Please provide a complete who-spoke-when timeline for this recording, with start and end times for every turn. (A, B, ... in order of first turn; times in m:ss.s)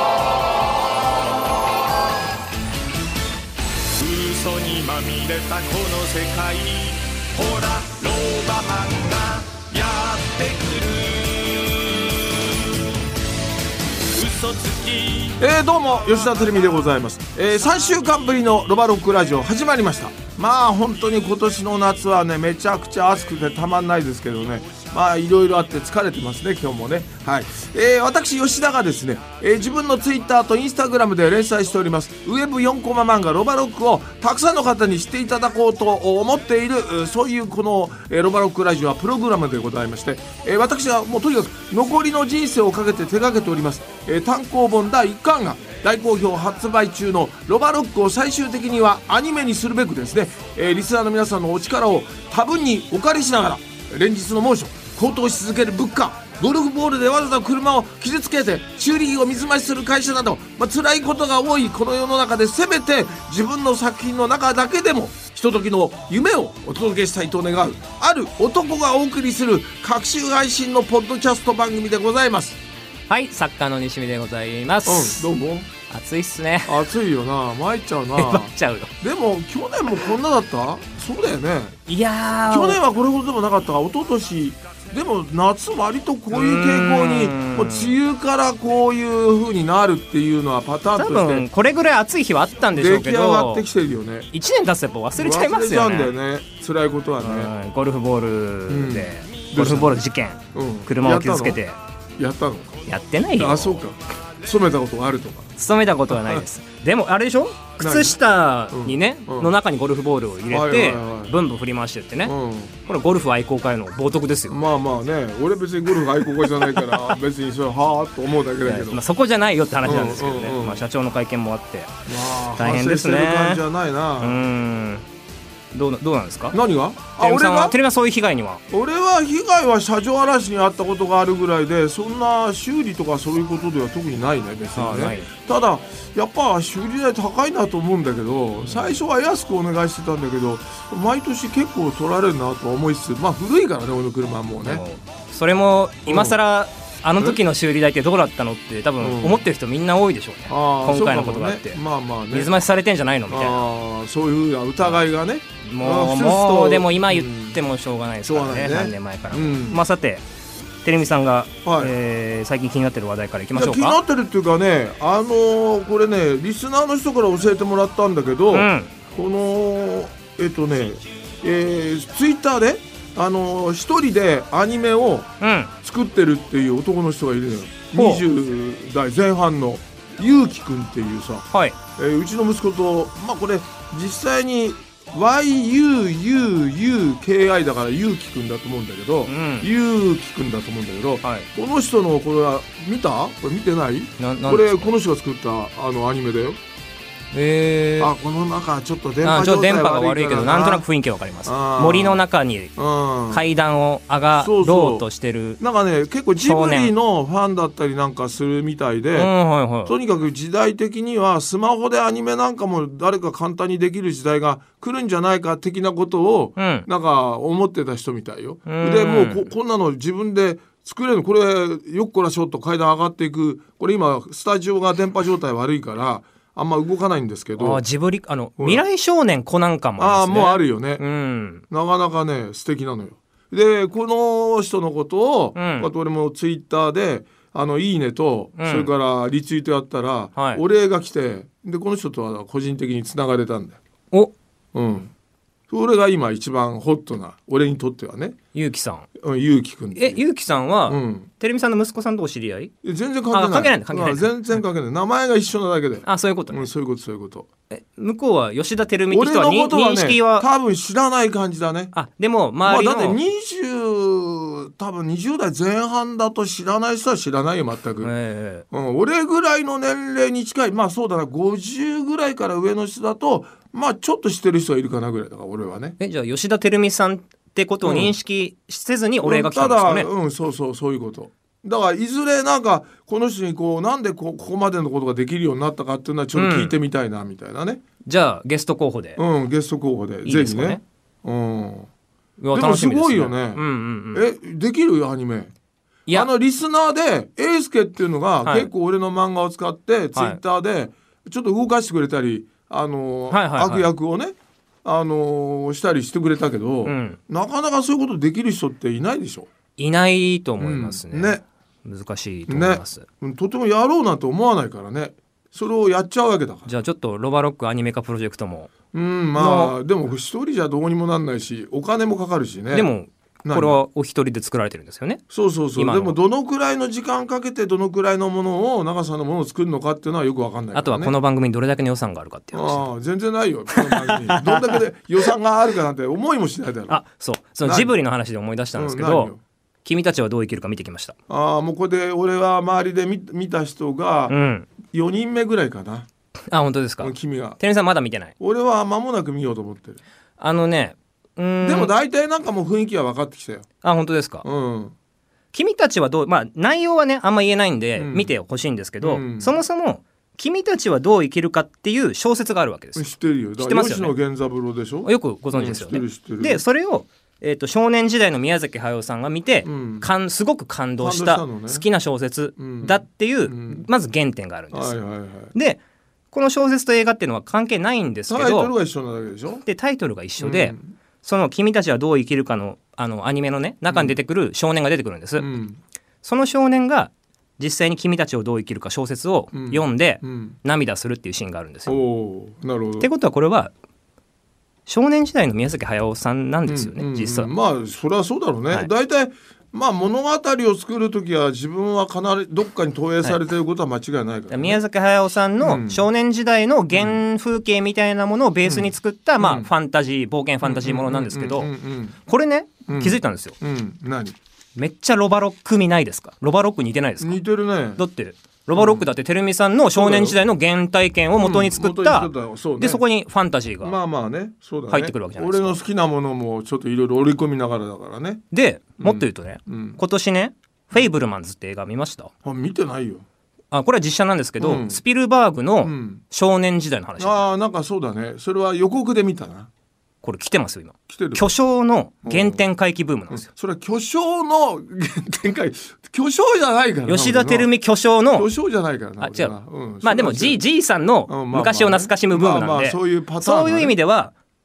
0:04.0-0:12.8 A
0:14.1-0:15.4 A
0:15.4-1:12.6 B
0:16.1-0:16.6 A
1:13.1-1:15.3 C
1:14.8-1:15.7 B
1:15.9-1:16.8 C
1:16.6-1:21.7 B
1:18.2-1:18.9 C
1:21.9-1:22.8 C
1:22.5-1:31.4 B
1:26.3-1:28.0 C
1:31.0-1:33.7 C
1:32.7-1:34.3 B
1:34.3-1:36.1 C
1:35.2-1:37.5 B
1:37.2-1:41.8 C
1:38.7-1:40.0 B
1:40.5-1:41.6 B
1:42.2-1:42.8 B
1:42.9-1:43.8 C
1:43.4-1:45.5 B
1:45.6-1:52.3 C
1:46.1-1:46.4 B
1:47.8-1:48.2 B
1:48.7-1:49.5 B
1:50.5-1:51.4 B
1:52.2-1:52.7 B
1:52.8-1:54.6 C
1:54.5-1:59.0 B
1:58.6-2:03.6 C
1:59.8-2:00.8 B
2:02.1-2:04.4 B
2:04.2-2:05.0 C
2:05.7-2:06.6 C
2:06.5-2:07.8 B
2:07.2-2:08.6 C
2:08.7-2:24.8 B
2:14.8-2:15.3 C
2:18.6-2:19.0 C
2:24.6-2:31.8 C
2:26.1-2:26.4 B
2:29.0-2:29.5 B
2:30.5-2:32.5 B
2:32.3-2:33.6 C
2:33.3-2:37.6 B
2:35.6-2:40.2 C
2:38.2-2:39.8 B
2:40.8-2:44.0 C
2:41.6-2:41.9 B
2:43.5-2:55.3 B
2:48.5-2:48.9 C
2:55.4-2:55.7 C
2:55.8-3:16.6 B
2:57.9-2:58.2 C
3:01.5-3:01.8 C
3:09.2-3:09.7 C
3:14.2-3:14.9 C
3:17.3-3:18.1 C
3:18.0-3:20.8 B
3:19.2-3:22.7 C
3:21.4-3:22.2 B
3:22.8-3:23.4 B
3:23.3-3:25.6 C
3:24.4-3:25.1 B
3:25.6-3:29.3 B
3:26.4-3:26.9 C
3:29.1-3:29.9 C
3:29.8-3:47.8 B
3:36.6-3:36.9 C
3:38.6-3:39.5 C
3:47.6-3:51.6 C
3:48.6-3:48.8 B
3:50.0-3:51.0 B
3:51.7-4:03.8 B
3:55.5-3:55.9 C
3:58.6-3:58.9 C
4:00.4-4:00.6 C
4:04.7-4:05.1 B
4:05.7-4:08.4 B
4:08.5-4:09.1 C
4:09.2-4:10.2 B
4:09.9-4:12.7 C
4:10.9-4:11.3 B
4:12.8-4:17.5 B
4:13.3-4:14.3 C
4:16.0-4:16.6 C
4:17.7-4:20.5 C
4:19.1-4:21.9 B
4:21.9-4:23.2 C
4:22.6-4:28.1 B
4:28.0-4:28.6 C
4:28.7-4:36.0 B
4:36.0-4:40.1 C
4:37.8-4:38.1 B
4:39.2-4:47.8 B
4:46.3-4:46.8 C
4:48.1-4:49.2 C
4:49.2-4:51.9 B
4:50.2-4:50.8 C
4:52.4-4:54.2 C
4:52.5-4:55.5 B
4:56.1-5:09.5 B
4:58.4-4:58.7 C
5:00.1-5:00.4 C
5:03.3-5:03.9 C
5:06.8-5:07.2 C
5:09.8-5:13.0 C
5:10.6-5:11.4 B
5:12.5-5:16.7 B
5:16.6-5:18.7 C
5:18.9-5:22.9 B
5:19.3-5:19.8 C
5:22.7-5:25.2 C
5:23.4-5:23.8 B
5:25.3-5:31.1 B
5:25.8-5:26.2 C
5:30.7-5:32.9 C
5:32.5-5:37.0 B
5:33.7-5:34.8 C
5:36.9-5:39.3 C
5:37.6-5:37.9 B
5:38.7-5:39.4 B
5:39.8-5:41.1 C
5:41.3-5:46.1 B
5:44.3-5:44.7 C
5:46.5-5:48.3 C
5:47.0-5:47.6 B
5:48.4-5:50.0 B
5:50.4-5:51.9 C
5:51.6-5:53.6 B
5:53.8-5:54.4 C
5:54.4-5:54.9 B
5:55.5-6:03.0 C
5:58.0-5:58.3 B
5:59.0-5:59.6 B
6:02.9-6:06.6 B
6:03.6-6:04.1 C
6:05.0-6:15.0 C
6:09.6-6:10.1 B
6:11.0-6:11.8 B
6:12.6-6:13.9 B
6:14.7-6:15.5 B
6:15.5-6:15.8 C
6:16.3-6:18.7 C
6:18.3-6:19.6 B
6:19.6-6:25.5 C
6:20.4-6:20.9 B
6:23.9-6:24.2 B
6:25.4-6:25.8 B
6:26.2-6:32.0 C
6:29.5-6:30.6 B
6:31.9-6:33.1 B
6:33.0-6:33.7 C
6:34.9-6:37.5 C
6:36.7-6:44.8 B
6:44.5-6:51.7 C
6:45.6-6:46.0 B
6:46.9-6:47.2 B
6:48.6-6:49.7 B
6:50.6-6:52.2 B
6:52.2-6:53.6 C
6:52.9-6:54.4 B
6:54.8-6:57.4 C
6:57.2-6:58.0 B
6:58.0-7:04.0 C
6:58.7-6:59.1 B
7:00.0-7:00.4 B
7:01.4-7:03.0 B
7:03.8-7:08.4 B
7:04.9-7:05.8 C
7:08.5-7:12.3 C
7:09.0-7:10.0 B
7:12.4-7:13.2 B
7:13.7-7:17.5 C
7:14.6-7:15.0 B
7:15.8-7:16.2 B
7:17.2-7:19.7 B
7:20.2-7:23.5 C
7:21.1-7:21.5 B
7:22.2-7:22.6 B
7:23.3-7:27.7 B
7:27.1-7:28.5 C
7:28.3-7:30.6 B
7:29.2-7:34.3 C
7:31.3-7:33.9 B